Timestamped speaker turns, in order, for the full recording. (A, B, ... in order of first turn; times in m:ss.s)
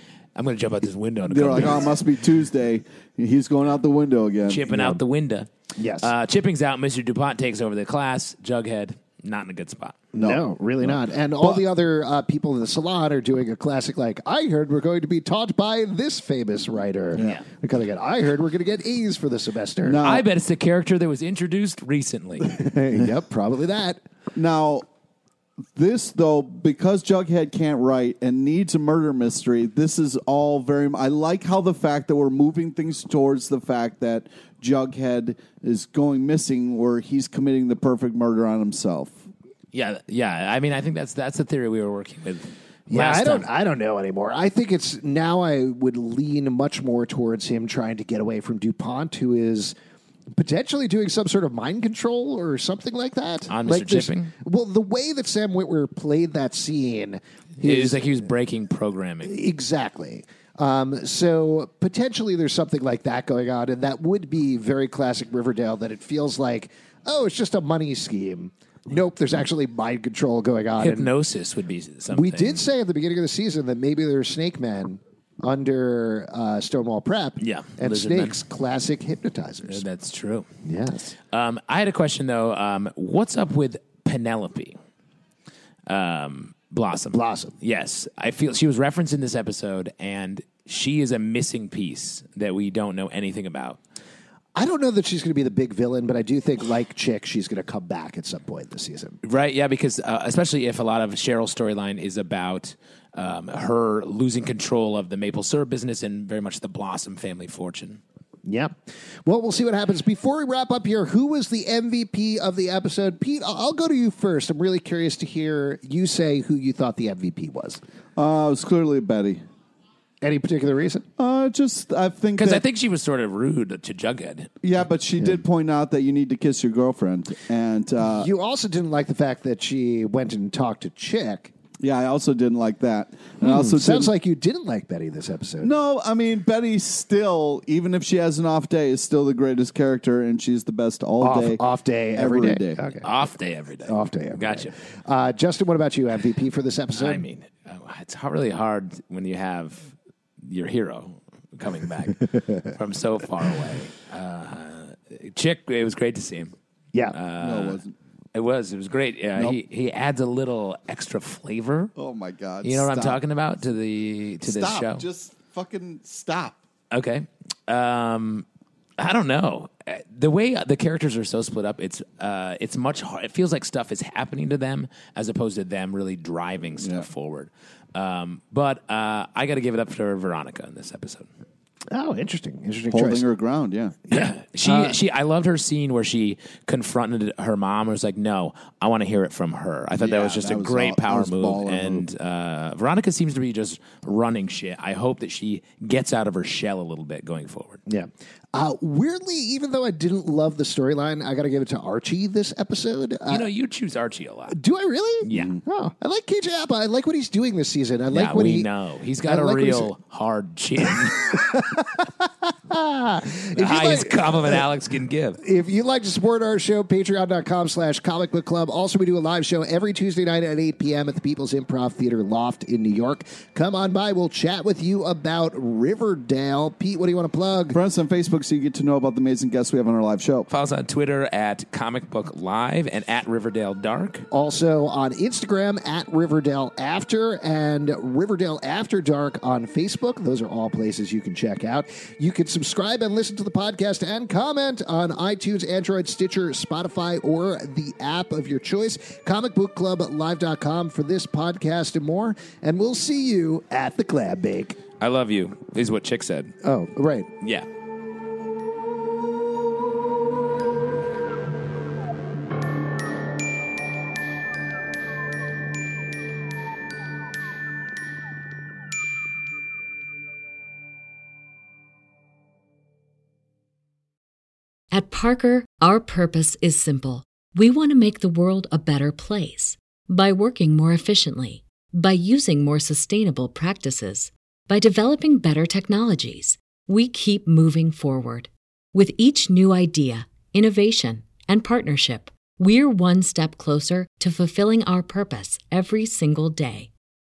0:00.3-0:01.9 A
0:01.3-0:05.0 B
0:04.5-0:05.5 A
0:05.8-0:06.1 C
0:06.0-0:10.0 A
0:10.1-0:11.6 B
0:10.1-0:20.0 C
0:17.2-0:17.4 A
0:19.8-0:20.2 B
0:20.0-0:22.5 A
0:22.4-0:24.0 C
0:24.3-0:24.8 B
0:25.7-0:39.2 B
0:39.7-0:43.4 A
0:42.9-0:49.7 C
0:50.3-0:58.2 C
0:53.5-0:54.3 A
0:57.6-0:59.4 A
0:59.2-1:11.1 C
1:10.8-1:12.6 A
1:12.1-1:19.8 C
1:17.4-1:18.4 A
1:19.7-1:20.5 A
1:20.6-1:21.1 C
1:21.3-1:24.8 A
1:25.9-1:33.8 A
1:27.1-1:27.5 C
1:34.5-1:39.2 C
1:39.2-1:48.0 A
1:48.4-1:57.8 C
1:58.2-1:59.4 B
2:00.2-2:01.0 C
2:01.2-2:02.6 B
2:02.4-2:04.5 A
2:04.6-2:08.3 B
2:08.2-2:11.5 C
2:11.8-2:14.1 B
2:13.4-2:15.7 C
2:15.6-2:21.6 B
2:21.2-2:23.1 C
2:22.2-2:22.8 B
2:23.0-2:24.7 A
2:23.9-2:27.2 C
2:27.0-2:36.5 A
2:32.3-2:32.7 C
2:37.1-2:37.8 A
2:37.4-2:37.9 B
2:38.3-2:41.9 A
2:42.0-2:43.2 B
2:42.6-2:45.0 A
2:44.4-2:46.6 B
2:46.9-2:48.4 A
2:49.0-3:01.3 A
2:56.8-2:57.1 B
3:01.9-3:03.2 C
3:02.9-3:04.0 B
3:04.1-3:05.0 C
3:04.1-3:17.8 A
3:10.0-3:12.0 B
3:17.8-3:23.5 C
3:23.3-3:24.6 A
3:24.5-3:28.7 C
3:25.2-3:25.5 A
3:25.3-3:25.6 B
3:28.1-3:31.4 A
3:29.2-3:29.9 C
3:30.8-3:34.6 C
3:33.5-3:35.4 A
3:35.4-3:47.8 C
3:47.7-3:50.5 B
3:50.5-3:54.2 A
3:54.3-4:14.8 C
4:15.0-4:16.5 A
4:16.6-4:17.3 C
4:17.4-4:17.6 A
4:34.9-4:56.9 D